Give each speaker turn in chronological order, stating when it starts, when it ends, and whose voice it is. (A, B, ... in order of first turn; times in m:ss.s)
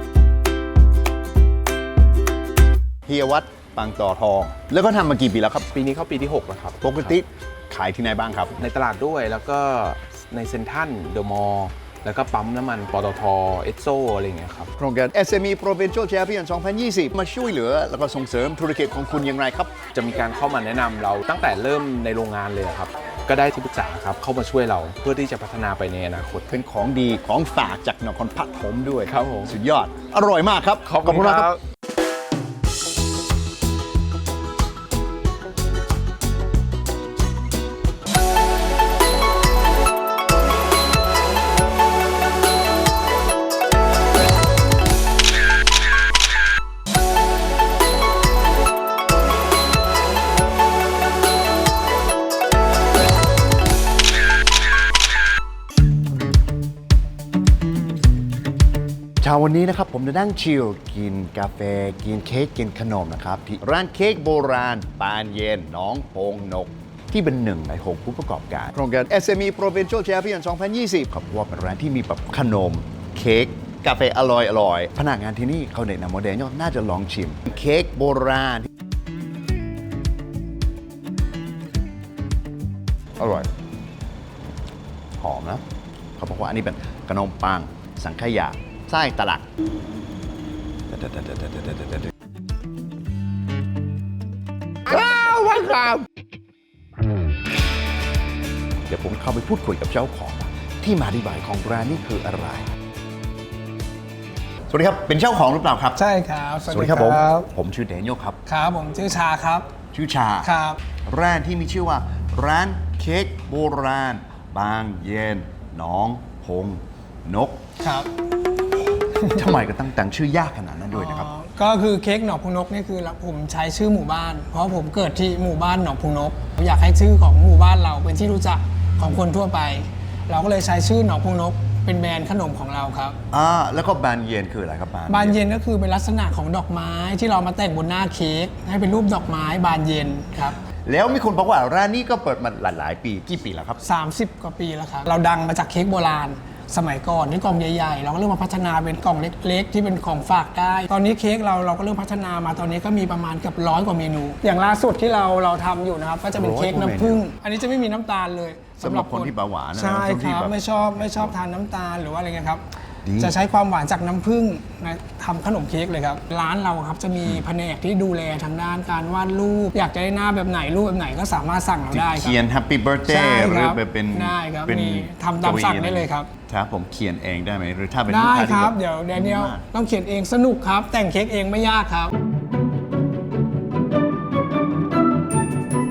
0:03.1-0:05.7 A
0:05.7-0:07.2 B
0:06.8-0:08.6 A
0:08.6-0:14.7 B
0:14.8-0:19.8 A
0:19.9-0:26.5 B
0:26.5-0:31.5 A
0:29.1-0:29.5 B
0:30.8-0:31.6 B
0:59.2-1:18.7 A
1:23.2-1:23.5 A
1:25.2-1:25.6 A
1:26.2-1:29.5 A
1:30.9-1:32.1 A
1:34.9-1:36.1 A
1:38.9-1:42.7 A
1:44.7-1:46.0 A
1:46.0-1:47.5 C
1:46.7-1:48.4 A
1:48.5-1:49.7 C
1:49.9-1:57.6 A
1:50.4-1:50.8 C
1:57.8-1:58.1 C
1:59.2-1:59.5 C
1:59.3-2:01.3 A
2:00.9-2:13.2 C
2:13.3-2:15.4 A
2:15.1-2:20.6 C
2:20.8-2:23.8 A
2:23.8-2:42.6 C
2:36.3-2:37.2 A
2:38.8-2:41.3 A
2:43.0-2:43.4 A
2:43.2-2:52.3 C
2:51.9-2:59.6 A
2:53.1-2:56.3 C
2:58.1-3:02.1 C